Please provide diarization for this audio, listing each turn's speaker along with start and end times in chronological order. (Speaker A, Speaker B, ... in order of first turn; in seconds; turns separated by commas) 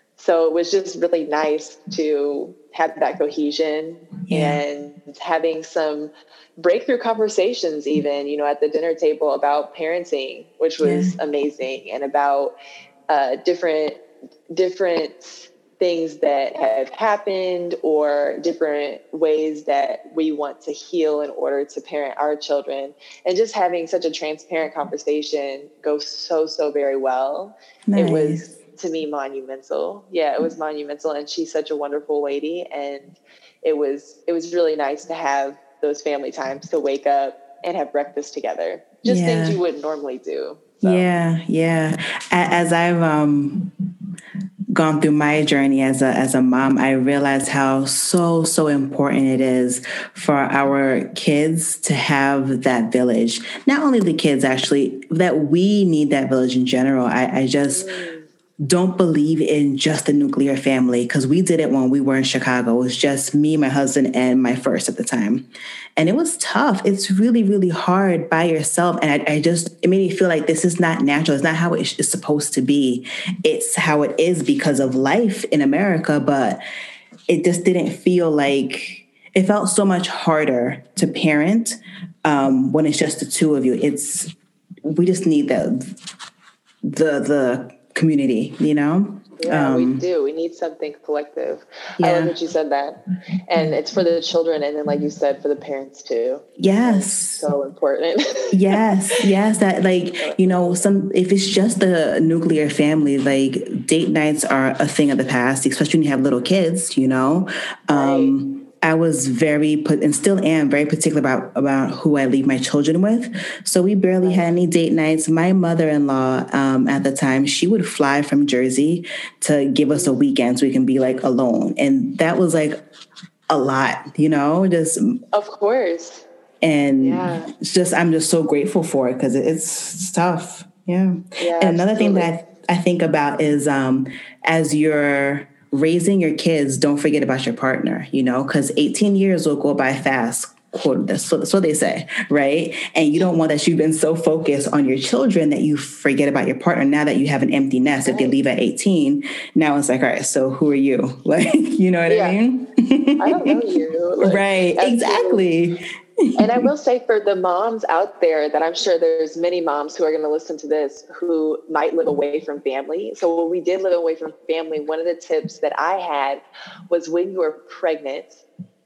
Speaker A: 0.2-12.5, Speaker B: 4.3-4.6, Speaker B: 10.8-11.2, Speaker A: 13.1-41.1, Speaker B: 27.9-28.5, Speaker B: 39.1-39.6, Speaker B: 40.8-43.7, Speaker B: 44.7-57.9, Speaker A: 57.7-58.3, Speaker B: 58.6-65.5, Speaker B: 66.0-76.6, Speaker B: 77.3-84.3, Speaker B: 84.8-85.8, Speaker B: 86.9-90.0, Speaker A: 89.4-98.8, Speaker B: 92.0-92.3, Speaker B: 96.6-97.5, Speaker B: 98.5-122.8, Speaker A: 100.2-100.9, Speaker A: 107.9-108.3, Speaker B: 123.5-125.2, Speaker A: 125.3-126.2, Speaker B: 126.6-153.6, Speaker A: 127.0-127.5, Speaker A: 131.4-132.3, Speaker A: 148.1-148.4, Speaker A: 152.1-152.4, Speaker A: 153.2-155.4, Speaker B: 154.2-156.7, Speaker A: 156.4-168.4